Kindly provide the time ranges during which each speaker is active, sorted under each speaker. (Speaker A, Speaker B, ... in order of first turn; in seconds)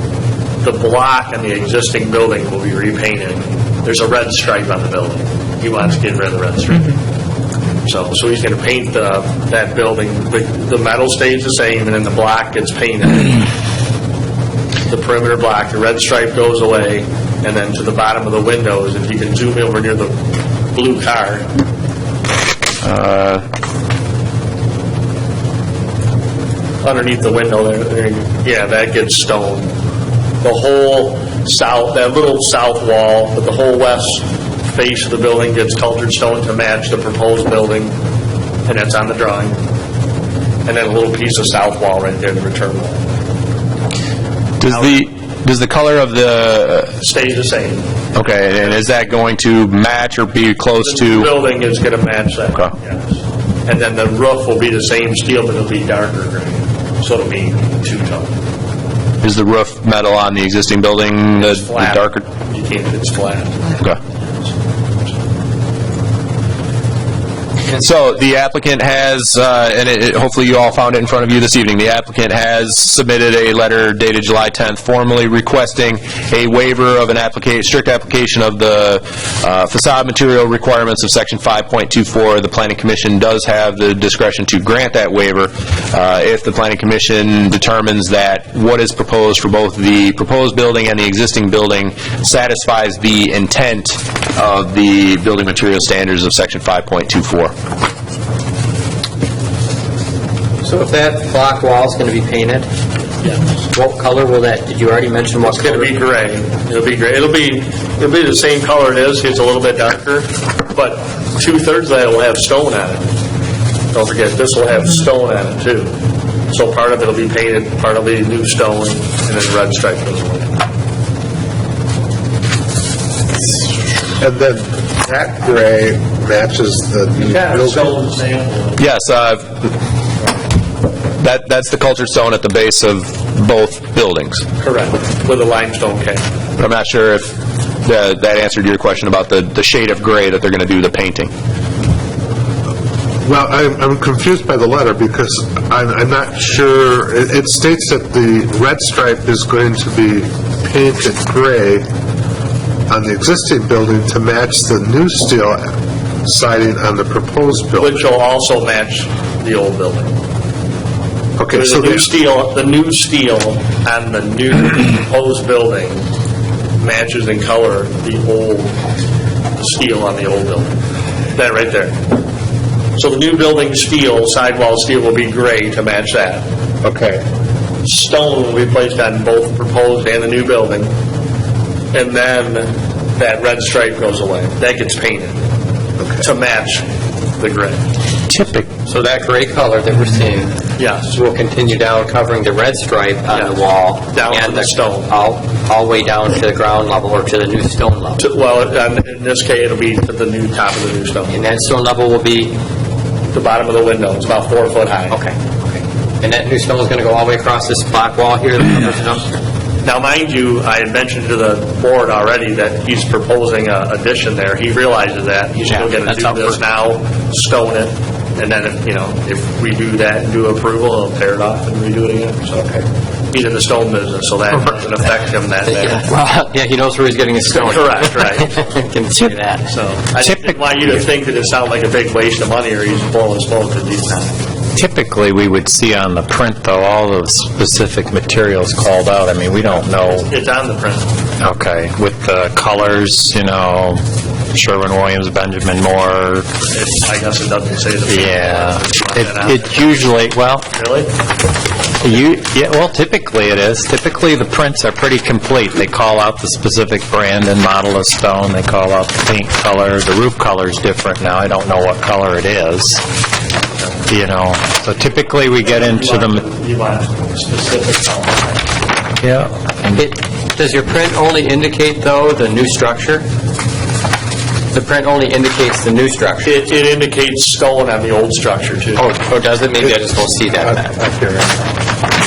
Speaker A: 0.6-7.0, 7.8-13.5, 14.9-20.2, 20.7-21.5, 26.8-29.7, 30.4-38.0, 38.7-39.6, 40.7-43.0, 44.7-45.0, 47.0-48.7, 50.8-58.4, 61.4-64.5, 105.4-113.1, 113.9-115.9, 116.5-120.6, 127.2-128.9, 134.6-136.2, 157.8-160.1, 161.5-166.1, 166.8-168.8, 169.6-170.8, 171.3-172.0, 173.0-176.4, 177.8-180.9, 181.9-185.4, 186.2-186.9, 187.4-187.8, 190.8-191.2, 193.3-195.1, 198.2-201.4, 203.3-205.2, 209.8-222.7, 223.3-226.0, 227.5-228.5, 229.7-234.4, 240.0-241.1, 246.7-250.1, 250.7-251.1, 265.6-268.7, 276.4-279.1
Speaker B: 22.8-23.4, 44.6-47.0, 48.1-51.3, 59.2-62.2, 67.7-97.5, 128.8-129.6, 131.2-134.4, 136.6-141.3
Speaker C: 100.6-102.7, 103.3-105.9, 188.9-190.6, 191.1-198.2, 201.3-202.6, 205.1-205.4, 206.2-209.3, 215.7-216.5, 225.7-229.7, 269.9-273.3, 274.7-276.6, 279.0-281.0
Speaker D: 124.2-128.0, 143.2-151.8, 152.9-155.7, 156.2-158.0, 161.4-162.1, 176.8-177.2, 280.6-281.6
Speaker E: 188.3-188.7, 230.2-230.7, 234.8-240.3, 241.4-244.0, 244.5-246.4, 248.1-250.7, 252.0-263.0, 264.1-266.4, 269.2-270.0